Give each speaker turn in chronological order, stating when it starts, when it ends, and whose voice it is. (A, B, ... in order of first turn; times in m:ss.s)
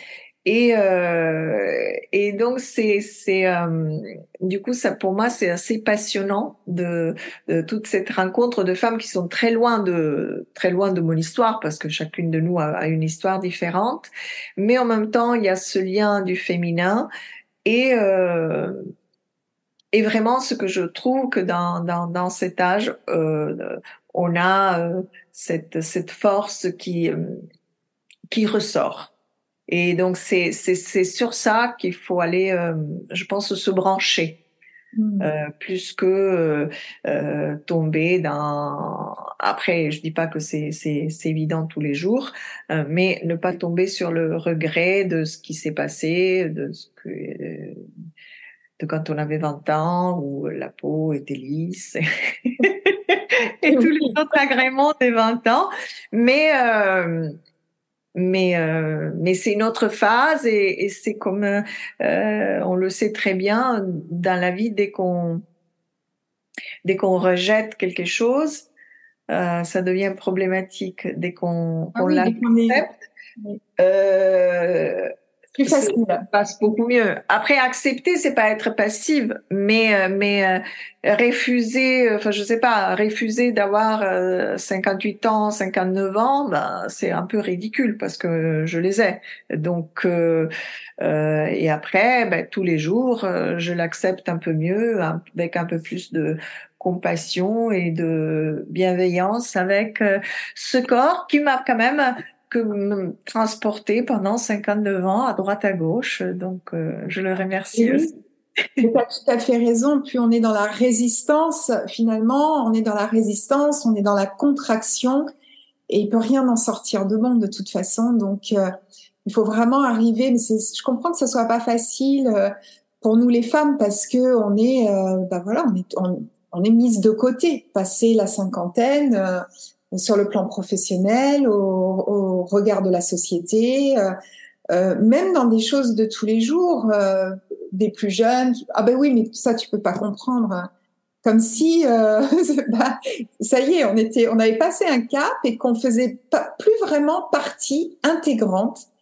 0:00.4-0:17.1 A
0:17.6-0:18.8 A
0:19.9-0:27.4 A
0:28.3-0:29.1 A
0:29.7-0:34.4 A
0:35.0-0:35.3 B
0:35.2-0:47.8 A
0:48.8-0:57.3 A
0:53.7-0:54.1 B
0:58.1-1:05.4 A
1:06.8-1:08.7 A
1:09.3-1:12.9 A
1:11.9-1:12.8 B
1:13.8-1:15.1 A
1:15.6-1:16.2 B
1:15.6-1:48.1 A
1:47.7-1:48.1 B
1:48.8-1:55.3 B
1:55.9-1:58.7 B
1:59.2-2:14.1 B
2:14.7-2:20.7 B
2:21.2-2:28.9 B